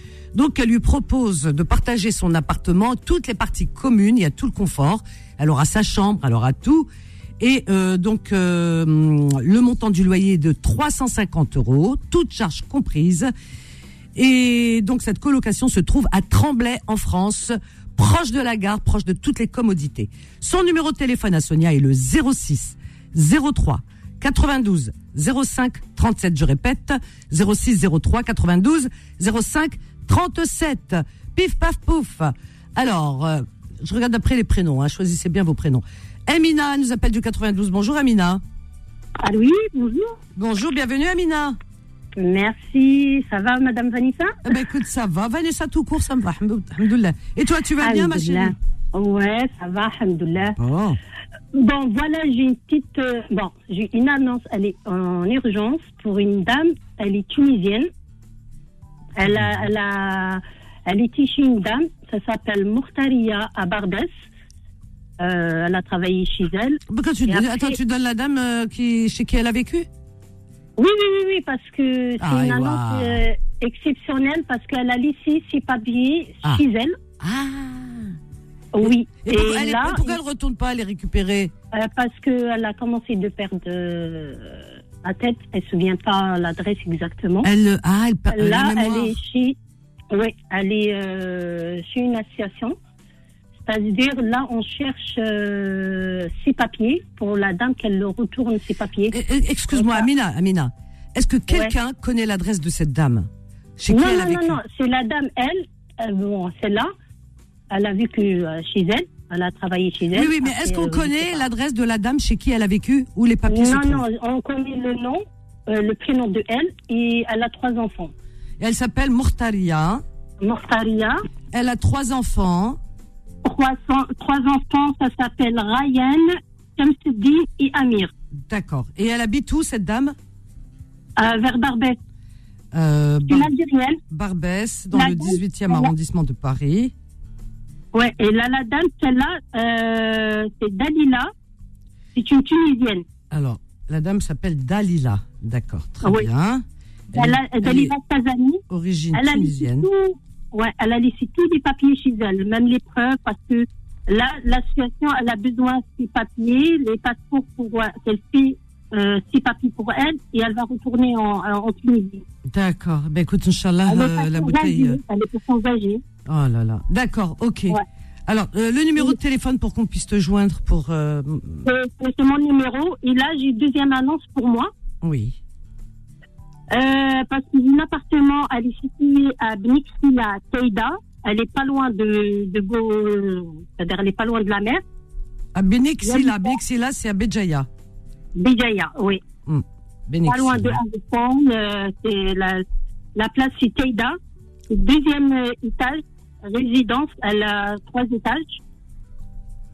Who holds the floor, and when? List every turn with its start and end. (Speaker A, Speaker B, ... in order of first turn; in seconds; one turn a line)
Speaker A: 0.3-13.3
Speaker A: 14.1-38.4
Speaker B: 39.2-40.1
Speaker A: 40.4-41.6
Speaker B: 42.2-44.3
Speaker A: 44.4-48.5
Speaker B: 47.8-50.5
Speaker A: 50.6-51.0
Speaker B: 51.5-57.9
Speaker B: 59.2-64.1
Speaker A: 59.3-59.6
Speaker B: 65.2-67.8
Speaker A: 66.9-69.9
Speaker B: 70.8-77.0
Speaker A: 72.2-73.2
Speaker A: 77.2-78.1
Speaker B: 78.7-80.2
Speaker A: 78.8-81.5
Speaker B: 81.7-87.5
Speaker A: 87.4-89.2
Speaker B: 88.3-89.6
Speaker B: 90.1-92.8
Speaker B: 93.6-99.2
Speaker A: 99.1-104.6
Speaker B: 99.7-100.0
Speaker B: 103.9-106.9
Speaker B: 107.7-111.5
Speaker A: 110.1-114.0
Speaker B: 113.5-118.1
Speaker A: 118.6-120.0
Speaker B: 120.4-121.2
Speaker A: 121.5-122.8
Speaker B: 123.4-128.1
Speaker A: 128.5-130.1
Speaker B: 131.2-132.0
Speaker A: 132.7-133.5
Speaker B: 133.3-134.0
Speaker A: 134.1-136.9
Speaker B: 134.9-135.9
Speaker B: 137.9-141.3
Speaker B: 142.1-143.0
Speaker A: 143.3-147.9
Speaker B: 147.1-148.6
Speaker A: 148.7-149.9
Speaker B: 149.1-162.2
Speaker A: 162.5-165.0
Speaker B: 163.9-166.0
Speaker A: 166.2-171.7
Speaker B: 171.6-174.7
Speaker A: 175.0-175.4
Speaker B: 176.7-184.8
Speaker A: 185.5-187.7
Speaker B: 186.0-186.5
Speaker B: 188.3-189.2
Speaker A: 189.4-190.8
Speaker B: 190.2-192.6
Speaker B: 193.2-194.2
Speaker B: 194.7-198.6